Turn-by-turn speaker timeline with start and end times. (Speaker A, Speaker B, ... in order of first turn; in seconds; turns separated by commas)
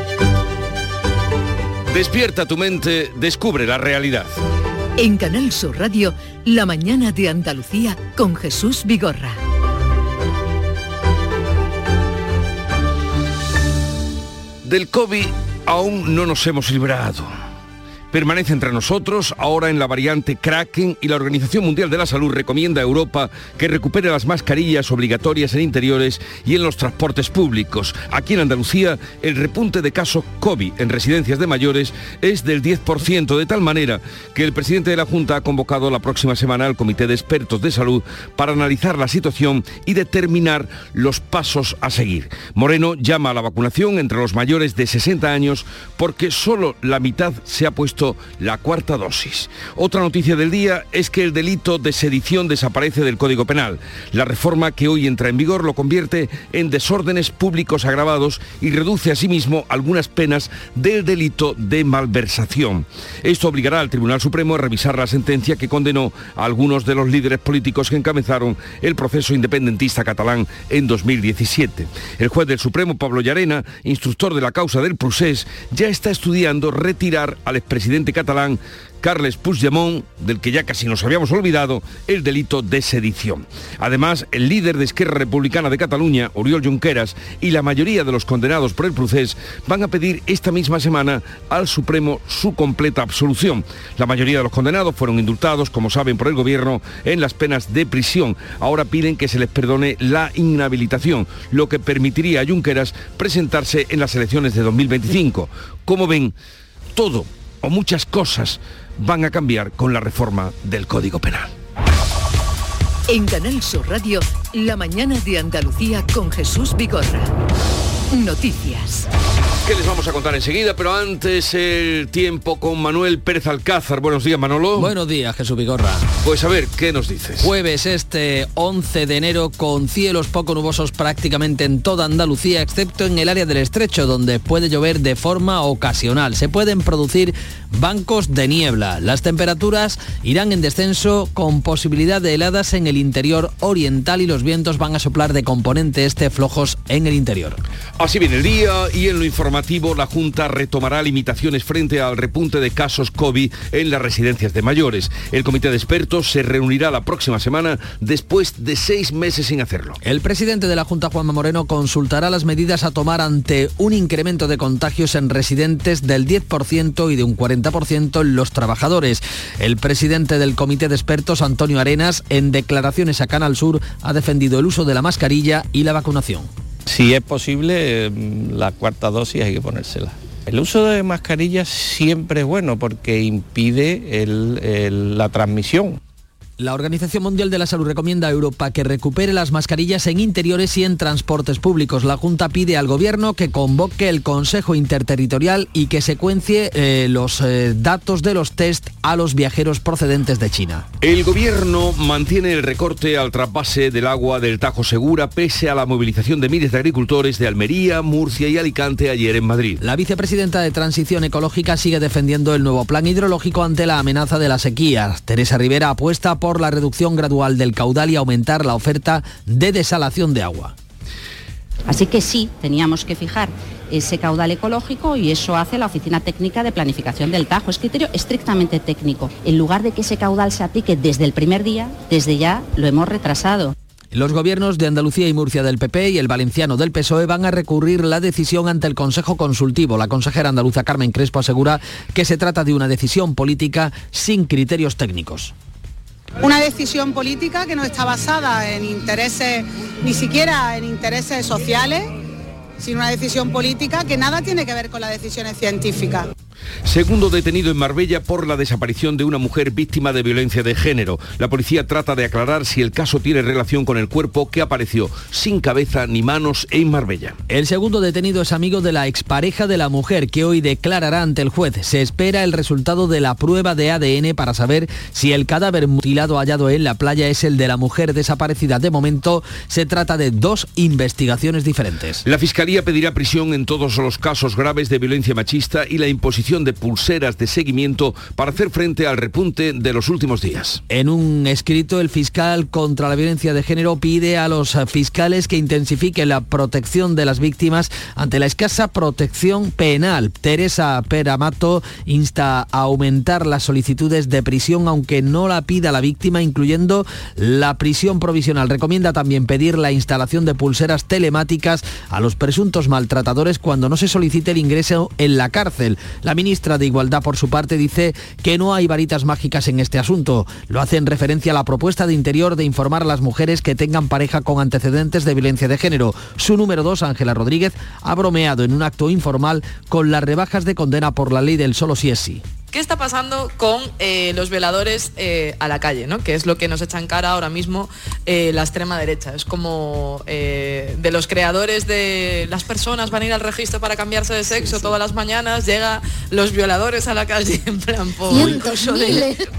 Speaker A: 1.9-4.3, Speaker B: 5.0-9.4, Speaker A: 14.6-17.3, Speaker A: 18.1-106.3, Speaker A: 107.0-111.5, Speaker B: 113.1-117.3, Speaker B: 118.1-119.1, Speaker A: 119.7-124.9, Speaker C: 124.8-126.1, Speaker A: 126.2-127.5, Speaker C: 127.4-147.6, Speaker A: 148.0-160.0, Speaker C: 160.0-176.5, Speaker D: 176.9-186.0, Speaker C: 186.6-200.9, Speaker A: 201.0-209.8, Speaker C: 209.8-220.8, Speaker E: 221.9-233.7, Speaker C: 234.1-245.5, Speaker F: 246.4-252.1, Speaker F: 252.8-256.3, Speaker A: 256.9-267.4, Speaker C: 267.5-282.2, Speaker A: 282.2-290.8, Speaker C: 290.9-332.4, Speaker G: 332.7-349.4, Speaker C: 348.4-348.6